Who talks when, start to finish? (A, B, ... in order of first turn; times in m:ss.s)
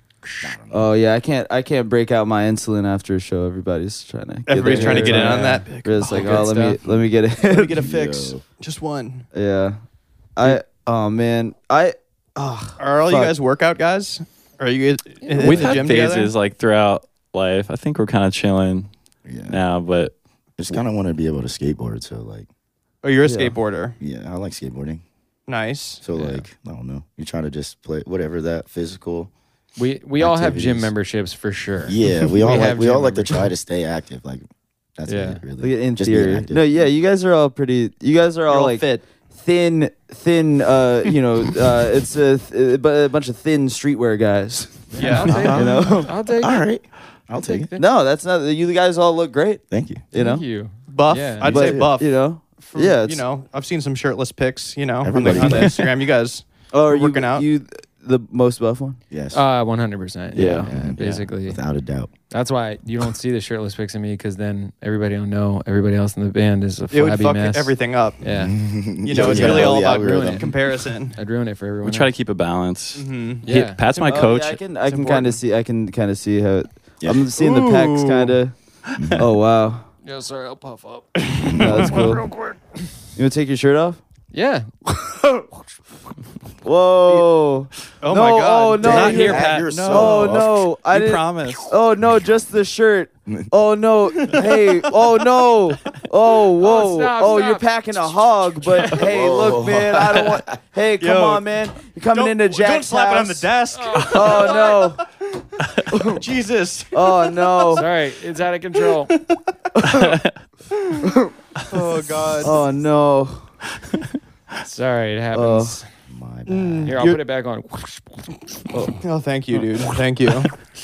0:00.2-0:00.6 A
0:00.4-0:00.9 B
0:00.7-0:07.9 C
0:04.5-0:06.4 D
0:04.5-0:06.8 A
0:07.4-0:09.3 D
0:07.8-0:08.4 B
0:09.3-0:09.8 C
0:10.4-0:13.3 C
0:12.8-0:16.3 D
0:15.2-0:15.8 A
0:15.4-0:18.9 E
0:19.2-0:19.6 B
0:19.5-0:20.1 E
0:20.6-0:22.5 B
0:23.0-0:24.0 D
0:23.2-0:23.6 C
0:24.0-0:25.0 B
0:25.5-0:26.0 D
0:26.0-0:29.3 B
0:26.2-0:26.4 A
0:29.8-0:33.4 A
0:30.2-0:30.9 B
0:31.8-0:34.4 B
0:35.0-0:36.8 B
0:35.1-0:35.4 A
0:35.6-0:46.1 C
0:38.5-0:39.0 D
0:44.9-0:46.6 A
0:45.0-0:45.3 D
0:45.2-0:45.7 E
0:45.3-0:47.7 B
0:47.4-0:47.8 A
0:47.8-0:50.4 C
0:49.7-0:50.0 B
0:50.1-0:51.5 A
0:50.9-0:57.5 D
0:51.4-0:51.9 B
0:51.4-0:53.2 C
0:55.0-0:55.8 B
0:55.2-0:55.7 C
0:56.7-0:59.0 C
0:59.1-0:59.4 B
0:59.3-1:01.6 A
1:00.3-1:00.7 C
1:00.4-1:02.1 B
1:02.3-1:08.5 A
1:06.9-1:08.2 D
1:08.2-1:10.5 B
1:09.0-1:11.2 D
1:09.1-1:10.5 A
1:11.1-1:12.1 A
1:11.8-1:14.6 E
1:12.9-1:13.4 D
1:13.4-1:13.8 A
1:14.0-1:18.5 C
1:17.0-1:17.2 B
1:17.4-1:18.4 D
1:19.0-1:19.2 B
1:19.2-1:19.8 C
1:20.0-1:22.3 A
1:21.2-1:22.1 D
1:21.4-1:21.9 B
1:21.6-1:22.2 C
1:23.1-1:24.0 C
1:24.3-1:24.7 A
1:24.9-1:25.4 C
1:26.6-1:43.5 C
1:28.0-1:29.5 D
1:28.8-1:30.7 B
1:28.8-1:31.7 E
1:34.2-1:34.7 D
1:36.6-1:39.0 A
1:38.9-1:40.4 B
1:41.0-1:41.5 D
1:42.1-1:44.9 D
1:43.7-1:44.9 A
1:44.0-1:45.0 C
1:45.9-1:46.2 C
1:46.1-1:47.8 D
1:46.9-1:47.8 C
1:47.7-1:49.1 A
1:49.1-1:49.4 D
1:49.8-1:50.1 C
1:49.8-1:50.3 E
1:51.0-1:51.3 C
1:51.7-1:52.6 D
1:52.4-1:53.4 C
1:54.6-1:55.8 A
1:55.3-1:55.8 C
1:56.1-1:57.0 B
1:56.5-1:57.2 D
1:56.8-1:58.2 A
1:58.7-1:59.0 C
1:59.0-2:00.5 D